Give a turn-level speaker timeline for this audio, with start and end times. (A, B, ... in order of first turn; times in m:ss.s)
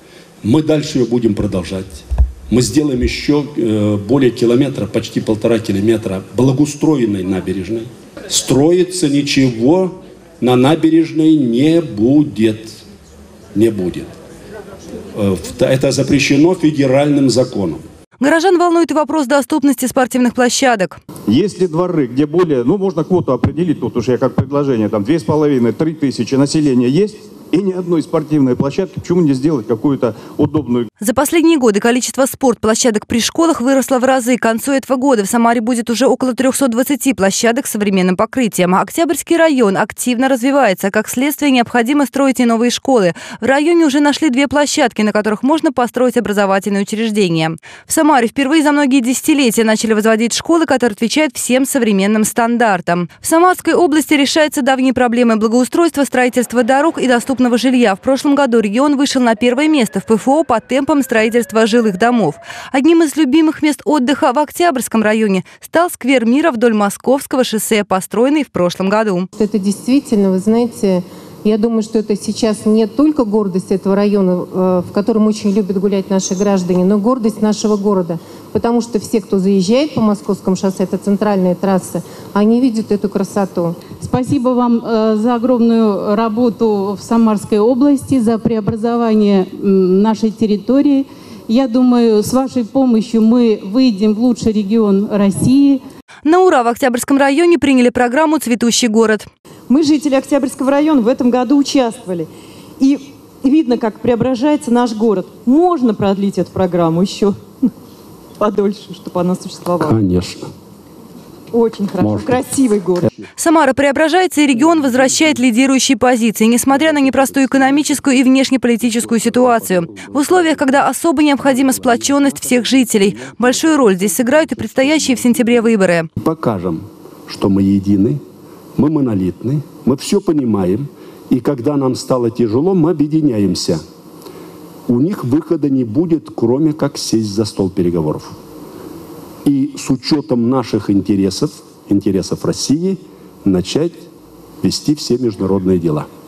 0:00.4-0:12.8 A
0:13.5-0:14.1 A
0:15.1-0:17.8 A
0:18.2-0:21.0 B
0:21.3-0:30.9 C
0:31.0-1:09.3 B
1:09.4-1:23.8 D
1:24.0-1:35.8 E
1:36.2-1:39.3 B
1:39.7-1:47.7 F
1:48.4-1:50.0 F
1:49.8-1:50.5 A
1:51.5-1:53.1 F
1:52.0-1:52.4 A
1:53.0-1:53.3 A
1:53.4-2:06.1 B
1:54.5-1:55.4 A
1:56.7-1:58.0 A
1:58.8-2:08.2 A
2:08.8-2:13.8 A
2:14.9-2:18.3 A
2:19.4-2:24.1 A
2:24.6-2:26.1 A